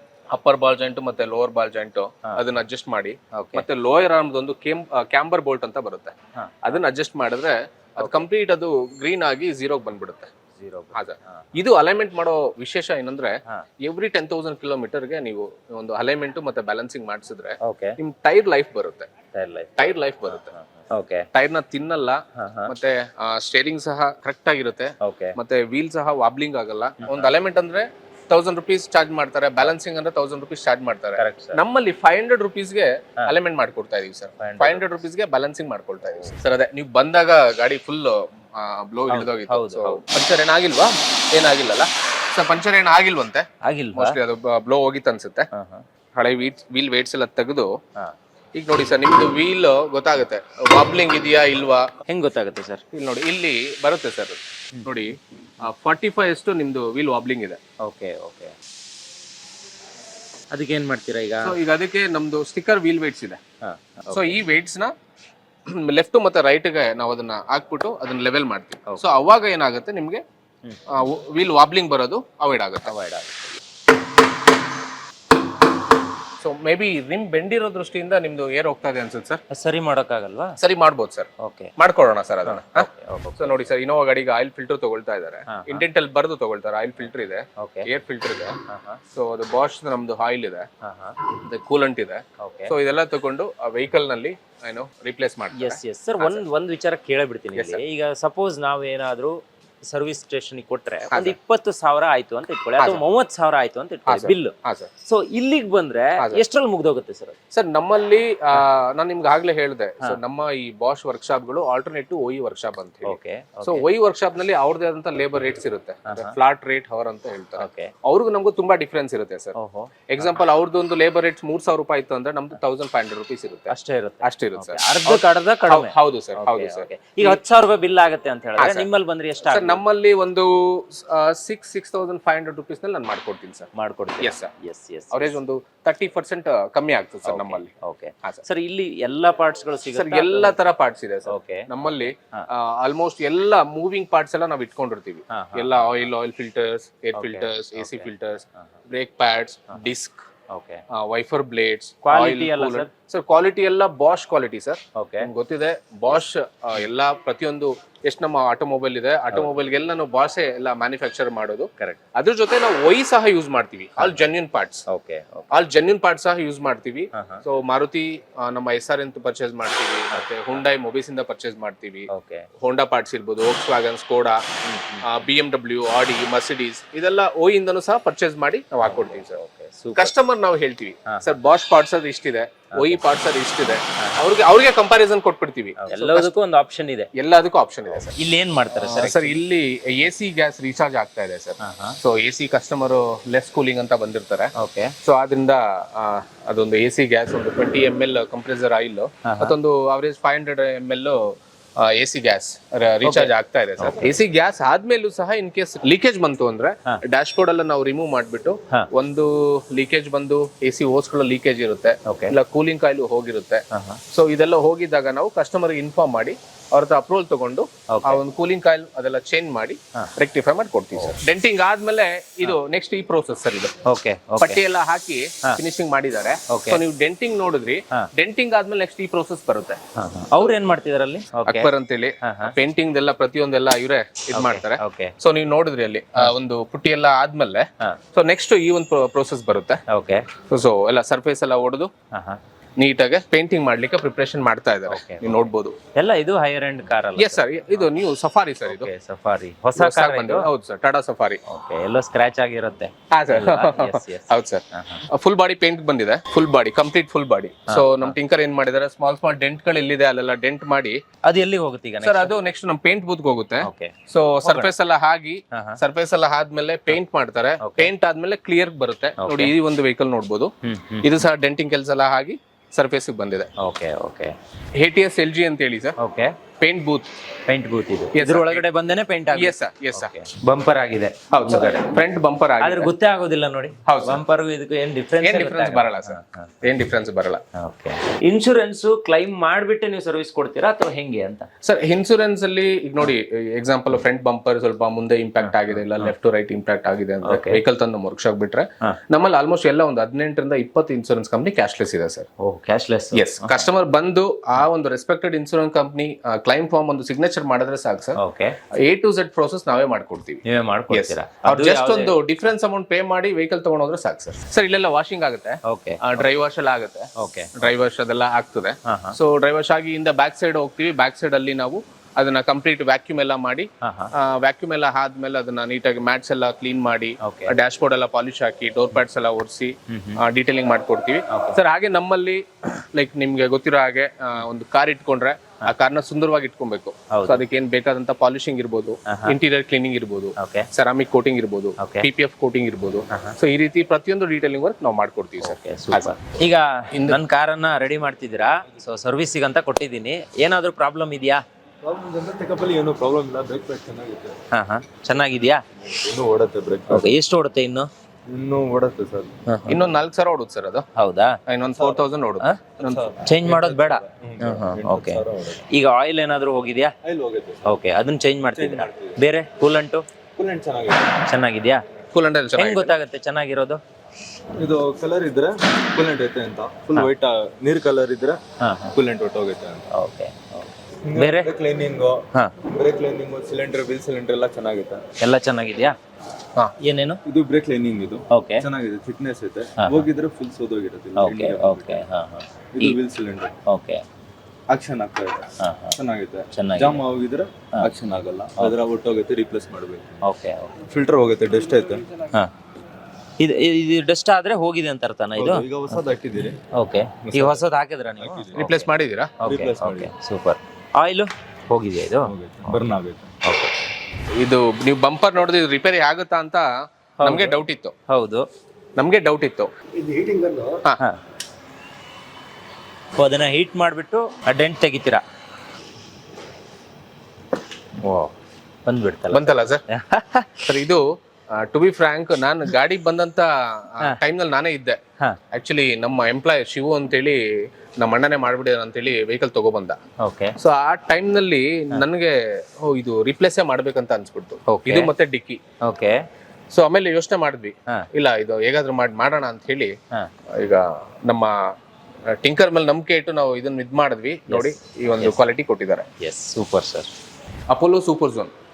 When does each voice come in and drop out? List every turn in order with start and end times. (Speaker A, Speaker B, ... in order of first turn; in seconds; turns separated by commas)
Speaker A: 0.3-10.3, Speaker B: 3.3-3.6, Speaker B: 6.3-6.7, Speaker B: 8.0-8.2, Speaker B: 10.5-11.4, Speaker A: 10.9-19.1, Speaker B: 17.6-18.0, Speaker B: 19.3-21.2, Speaker A: 19.8-20.5, Speaker A: 21.3-45.5, Speaker B: 22.3-22.7, Speaker B: 25.0-25.4, Speaker B: 27.0-27.3, Speaker B: 31.1-31.6, Speaker B: 34.4-34.8, Speaker B: 39.1-40.0, Speaker B: 43.6-44.2, Speaker B: 45.5-45.8, Speaker A: 46.1-47.7, Speaker A: 48.5-51.9, Speaker B: 52.1-52.8, Speaker A: 52.9-57.6, Speaker B: 57.8-58.5, Speaker B: 60.5-61.6, Speaker A: 61.4-63.4, Speaker B: 63.6-64.4, Speaker A: 64.1-64.9, Speaker A: 65.7-70.2, Speaker B: 68.8-69.2, Speaker A: 70.9-72.9, Speaker B: 72.8-73.4, Speaker A: 76.4-79.4, Speaker B: 79.5-80.6, Speaker A: 80.6-88.5, Speaker B: 81.4-81.7, Speaker B: 82.5-83.7, Speaker B: 85.5-85.8, Speaker B: 87.6-87.9, Speaker B: 88.7-89.0, Speaker A: 89.1-90.7, Speaker B: 90.8-91.2, Speaker A: 91.2-96.4, Speaker B: 92.4-92.7, Speaker B: 95.5-107.3, Speaker A: 104.1-104.9, Speaker A: 107.5-119.5, Speaker B: 113.0-113.8, Speaker B: 116.1-116.3, Speaker B: 117.6-117.9, Speaker B: 119.5-120.4, Speaker A: 120.1-123.7, Speaker B: 123.7-129.8, Speaker A: 124.2-127.4, Speaker A: 128.6-128.9, Speaker A: 129.4-133.7, Speaker B: 133.7-135.4, Speaker A: 134.2-134.5, Speaker A: 135.1-137.7, Speaker B: 137.2-140.6, Speaker A: 139.9-150.2, Speaker B: 141.3-141.7, Speaker B: 145.3-146.0, Speaker B: 147.1-148.1, Speaker B: 150.5-150.8, Speaker A: 150.9-164.8, Speaker B: 152.0-152.9, Speaker B: 154.9-155.3, Speaker B: 164.0-164.2, Speaker B: 164.9-165.6, Speaker A: 165.5-172.1, Speaker B: 167.1-167.4, Speaker B: 172.1-172.5, Speaker A: 172.6-174.4, Speaker B: 174.6-175.2, Speaker A: 175.0-179.4, Speaker B: 178.8-180.1, Speaker A: 179.9-186.3, Speaker B: 181.1-181.3, Speaker B: 182.7-183.0, Speaker B: 185.8-187.1, Speaker A: 187.1-188.1, Speaker B: 188.1-189.4, Speaker A: 188.7-223.7, Speaker B: 191.6-192.0, Speaker B: 194.6-194.9, Speaker B: 199.2-199.5, Speaker B: 203.0-204.2, Speaker B: 212.0-212.3, Speaker B: 213.7-214.0, Speaker B: 217.9-218.2, Speaker B: 223.8-224.6, Speaker A: 224.4-229.8, Speaker B: 226.5-226.8, Speaker B: 229.9-231.7, Speaker A: 231.4-239.8, Speaker B: 232.2-232.5, Speaker B: 234.3-235.1, Speaker B: 239.9-240.2, Speaker A: 240.5-241.9, Speaker B: 242.1-242.4, Speaker A: 242.8-245.8, Speaker B: 244.9-245.4, Speaker B: 245.9-247.9, Speaker A: 247.2-248.9, Speaker B: 248.7-250.5, Speaker A: 249.8-251.4, Speaker B: 251.4-255.1, Speaker A: 253.1-261.0, Speaker B: 257.7-258.1, Speaker B: 261.2-262.3, Speaker A: 262.0-270.5, Speaker B: 263.6-264.7, Speaker B: 265.5-265.8, Speaker B: 267.6-267.9, Speaker B: 269.2-269.5, Speaker B: 270.6-271.1, Speaker A: 271.0-273.5, Speaker B: 273.6-274.3, Speaker A: 274.8-275.9, Speaker B: 276.0-276.4, Speaker A: 276.6-277.1, Speaker B: 277.5-282.0, Speaker A: 278.1-278.6, Speaker A: 279.3-280.1, Speaker A: 281.3-282.9, Speaker B: 282.6-286.5, Speaker A: 283.9-284.2, Speaker A: 285.2-287.4, Speaker B: 287.5-291.5, Speaker A: 291.6-302.3, Speaker B: 295.4-296.1, Speaker B: 297.2-297.6, Speaker B: 302.4-303.7, Speaker A: 303.1-308.2, Speaker B: 308.2-308.6, Speaker A: 308.8-310.4, Speaker B: 310.4-312.1, Speaker A: 310.9-346.1, Speaker B: 315.6-316.3, Speaker B: 317.2-317.7, Speaker B: 318.8-319.2, Speaker B: 323.8-324.1, Speaker B: 327.2-327.5, Speaker B: 329.9-330.2, Speaker B: 331.3-331.6, Speaker B: 337.1-337.4, Speaker B: 339.1-339.4, Speaker B: 340.4-340.7, Speaker B: 341.8-342.1, Speaker B: 343.1-343.3, Speaker B: 345.4-351.4, Speaker A: 346.9-347.2, Speaker C: 351.8-354.4, Speaker B: 354.5-355.6, Speaker C: 355.8-357.1, Speaker B: 356.9-357.9, Speaker C: 358.3-359.3, Speaker B: 359.5-359.8, Speaker A: 359.7-360.8, Speaker B: 360.9-361.4, Speaker A: 361.5-363.1, Speaker C: 361.8-362.0, Speaker C: 362.8-365.6, Speaker B: 363.2-366.9, Speaker C: 367.0-367.7, Speaker B: 367.6-370.0, Speaker C: 368.5-369.2, Speaker C: 370.4-371.2, Speaker B: 371.3-371.8, Speaker A: 372.1-372.9, Speaker B: 372.6-373.8, Speaker C: 374.6-378.4, Speaker B: 378.6-378.9, Speaker C: 378.9-379.8, Speaker B: 379.9-381.5, Speaker C: 381.1-385.0, Speaker B: 385.2-385.9, Speaker B: 386.8-387.2, Speaker C: 387.2-392.0, Speaker B: 388.3-388.6, Speaker B: 389.8-390.1, Speaker B: 391.1-393.0, Speaker C: 392.7-393.5, Speaker B: 393.6-394.0, Speaker C: 394.7-400.2, Speaker B: 395.6-396.0, Speaker B: 396.5-397.0, Speaker B: 400.2-400.8, Speaker C: 400.8-402.1, Speaker B: 403.4-406.0, Speaker C: 405.4-406.6, Speaker B: 406.7-408.9, Speaker C: 407.3-407.6, Speaker C: 408.2-408.6, Speaker A: 408.5-409.3, Speaker B: 409.4-412.9, Speaker C: 409.4-410.1, Speaker C: 412.3-413.3, Speaker B: 413.4-413.8, Speaker A: 414.4-416.7, Speaker B: 417.2-417.6, Speaker A: 417.2-417.9, Speaker B: 418.1-418.4, Speaker A: 419.0-419.7, Speaker C: 419.9-420.8, Speaker B: 423.1-425.2, Speaker B: 428.0-428.3, Speaker B: 428.9-430.6, Speaker A: 429.3-429.8, Speaker A: 430.6-435.0, Speaker A: 435.5-440.0, Speaker B: 440.2-440.5, Speaker A: 440.6-445.6, Speaker B: 444.7-445.1, Speaker B: 445.8-446.2, Speaker A: 446.7-449.9, Speaker A: 450.5-451.7, Speaker A: 452.3-456.1, Speaker B: 454.5-455.4, Speaker B: 456.2-457.1, Speaker A: 457.7-458.5